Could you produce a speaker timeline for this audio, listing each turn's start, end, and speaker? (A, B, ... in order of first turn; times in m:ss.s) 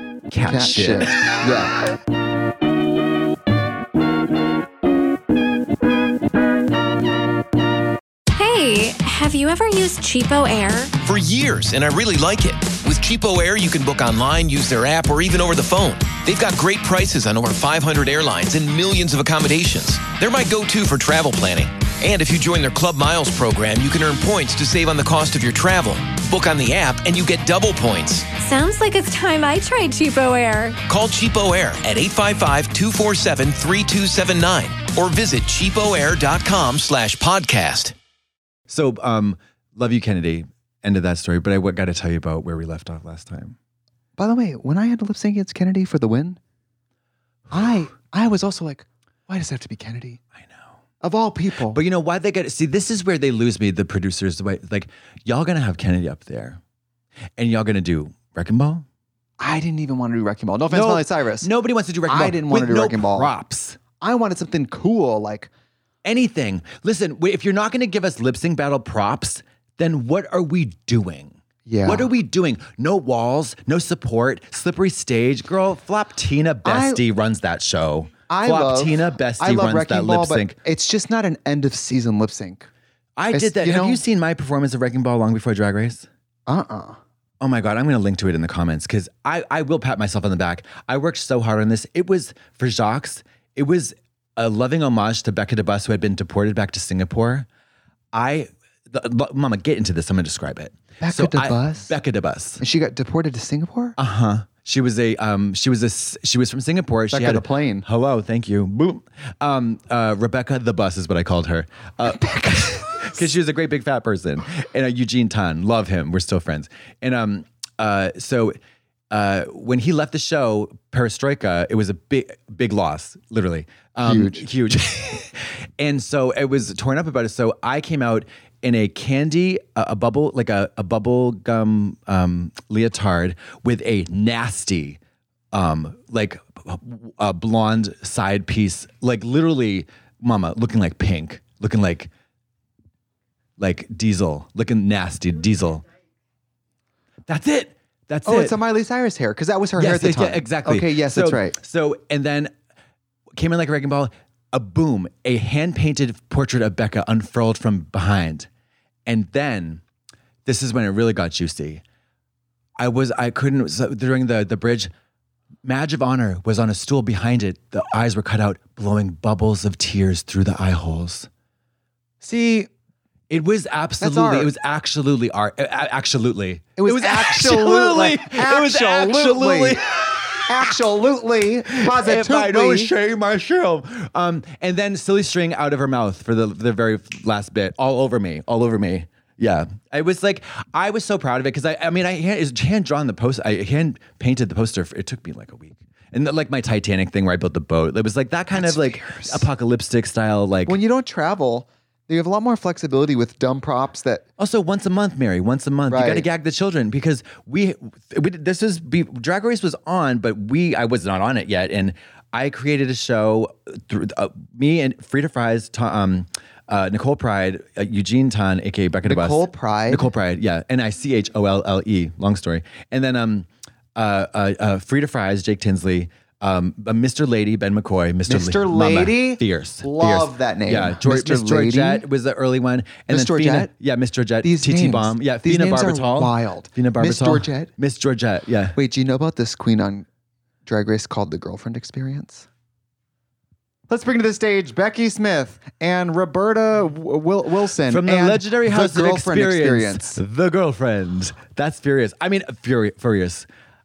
0:00.3-0:01.6 A
0:00.4-0:01.8 B
0:08.4-0:10.9 C
0:11.0-0:28.3 D
0:28.4-0:30.8 C
0:30.9-0:37.9 D
0:38.7-0:43.6 A
0:44.2-0:46.4 B
0:47.5-0:50.2 B
0:50.4-0:50.7 A
0:51.0-0:51.8 B
0:51.7-0:56.6 A
0:57.4-0:58.8 A
0:59.4-1:01.5 B
1:00.7-1:03.8 A
1:02.1-1:03.3 B
1:04.0-1:05.5 B
1:06.0-1:20.6 A
1:11.6-1:12.1 B
1:16.6-1:17.0 B
1:18.3-1:22.7 B
1:23.2-1:26.1 A
1:23.3-1:24.0 B
1:26.5-1:27.0 B
1:27.4-1:37.5 A
1:38.1-1:42.6 A
1:41.0-1:41.9 B
1:42.6-1:44.0 B
1:44.0-1:58.6 A
1:47.1-1:47.8 B
1:52.1-1:53.2 B
1:59.1-2:15.0 A
2:04.0-2:04.4 B
2:15.5-2:22.1 A
2:23.6-2:25.8 A
2:27.3-2:28.6 A
2:28.2-2:31.6 B
2:29.8-2:32.5 A
2:33.4-2:38.5 A
2:39.0-2:39.8 A
2:40.4-2:41.8 A
2:42.8-2:44.9 A
2:45.6-2:51.3 A
2:52.2-2:52.7 B
2:53.3-3:00.7 A
2:54.0-2:54.5 B
2:56.8-2:59.8 B
3:00.4-3:02.9 B
3:01.7-3:20.8 A
3:18.5-3:19.4 B
3:20.6-3:24.2 B
3:24.4-3:58.8 A
3:25.9-3:26.2 B
3:39.0-3:40.1 B
3:48.3-3:52.0 B
3:53.1-3:53.7 B
3:54.4-3:57.7 B
3:58.7-4:00.1 B
4:00.6-4:02.4 B
4:03.9-4:10.2 B
4:07.9-4:13.5 A